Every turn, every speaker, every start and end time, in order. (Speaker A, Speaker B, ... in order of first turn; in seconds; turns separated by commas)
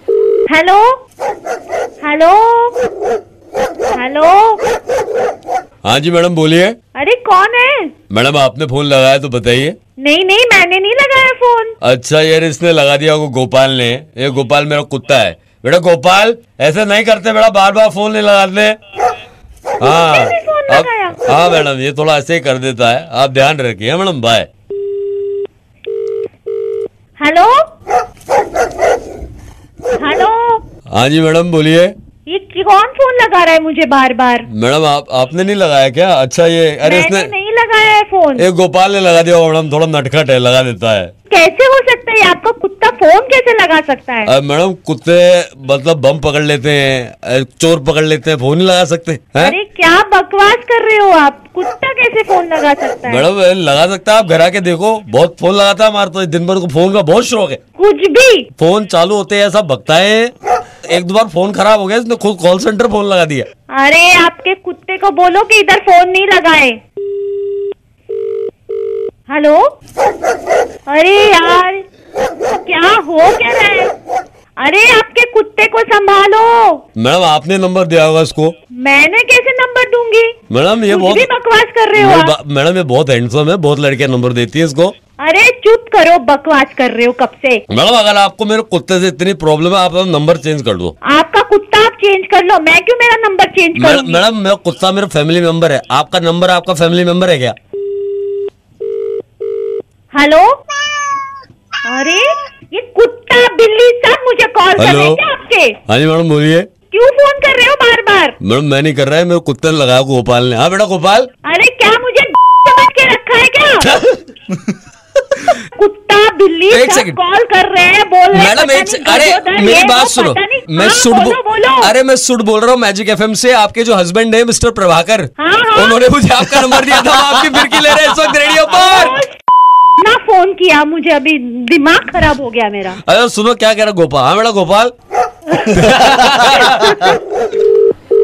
Speaker A: 0.5-0.8, Speaker A: 2.0-2.8, Speaker A: 3.9-4.6, Speaker B: 5.8-6.8, Speaker A: 6.9-7.9, Speaker B: 8.1-9.7, Speaker A: 10.0-11.7, Speaker B: 11.8-18.7, Speaker B: 19.8-24.5, Speaker A: 19.8-21.6, Speaker A: 27.2-27.5, Speaker A: 30.0-30.6, Speaker B: 30.9-31.9, Speaker A: 32.3-34.5, Speaker B: 34.5-37.3, Speaker A: 36.8-38.5, Speaker B: 38.4-41.1, Speaker A: 41.3-44.3, Speaker B: 44.2-49.5, Speaker A: 49.4-53.3, Speaker B: 53.1-57.6, Speaker A: 57.8-58.5, Speaker B: 58.6-60.3, Speaker B: 60.9-63.5, Speaker A: 63.7-66.8, Speaker A: 69.3-69.6, Speaker A: 70.9-71.8, Speaker A: 72.5-73.9, Speaker A: 74.6-76.8, Speaker B: 77.0-78.5, Speaker A: 78.8-80.3, Speaker B: 80.5-81.3, Speaker A: 80.9-82.3, Speaker B: 82.0-84.9, Speaker A: 85.2-87.6, Speaker B: 87.7-90.9, Speaker A: 91.1-94.2, Speaker B: 93.7-97.5, Speaker A: 100.1-100.5, Speaker A: 101.9-105.8, Speaker B: 104.8-105.2, Speaker B: 105.9-106.7, Speaker A: 106.9-108.3, Speaker B: 108.4-111.3, Speaker A: 111.4-113.9, Speaker B: 113.8-114.2, Speaker A: 115.7-121.9, Speaker B: 116.7-117.2, Speaker B: 118.3-129.2, Speaker A: 125.4-126.0, Speaker A: 128.7-129.3, Speaker A: 130.0-133.0, Speaker B: 133.0-134.9, Speaker B: 135.6-137.1